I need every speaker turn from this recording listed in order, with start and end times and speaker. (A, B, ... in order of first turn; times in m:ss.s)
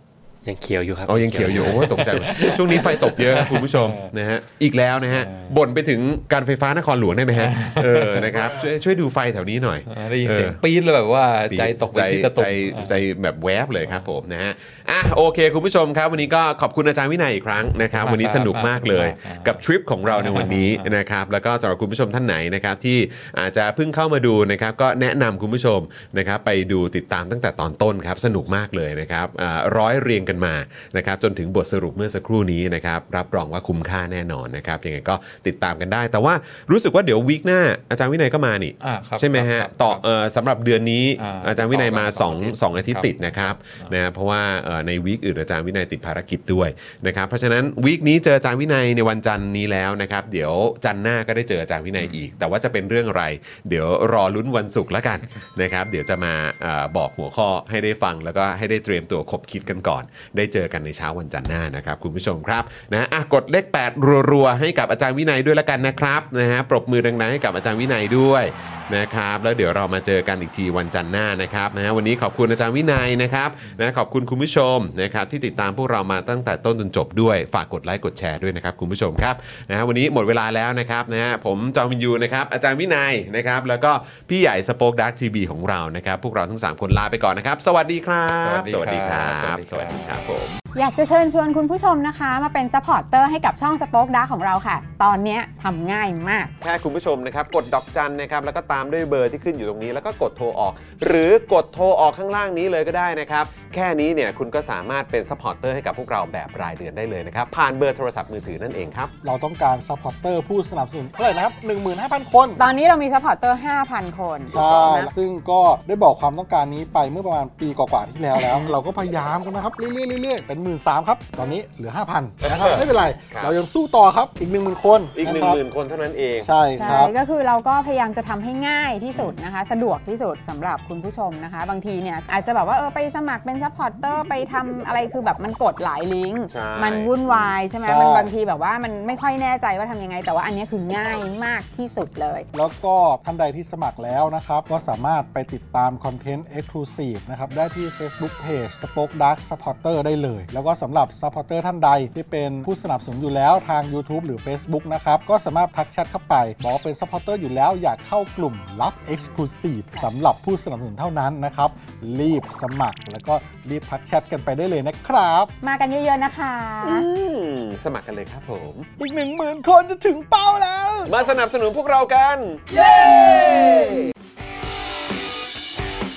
0:00.4-0:03.1 A
0:01.1-0:10.6 B
0:02.1-0:04.1 C
0:05.1-0:05.6 C
0:07.4-0:08.6 C
0:09.9-0:13.0 C
0:11.5-1:30.6 B
0:18.0-0:21.0 C
0:38.8-0:40.0 C
0:41.2-0:43.9 C
1:08.6-1:08.9 C
1:28.4-1:30.0 C
1:30.8-1:36.5 D
1:36.6-1:49.1 B
1:49.2-1:52.6 E
1:52.6-1:55.1 D
1:54.5-2:05.6 E
1:58.4-1:58.7 D
2:02.4-2:03.6 B
2:05.2-2:06.5 B
2:06.4-2:07.1 E
2:06.8-2:22.5 D
2:16.5-2:17.5 B
2:17.8-2:18.3 E
2:22.5-2:45.5 E
2:45.6-2:47.1 D
2:46.8-2:48.9 B
2:49.0-2:51.2 E
2:51.1-2:54.0 B
2:52.9-2:53.8 E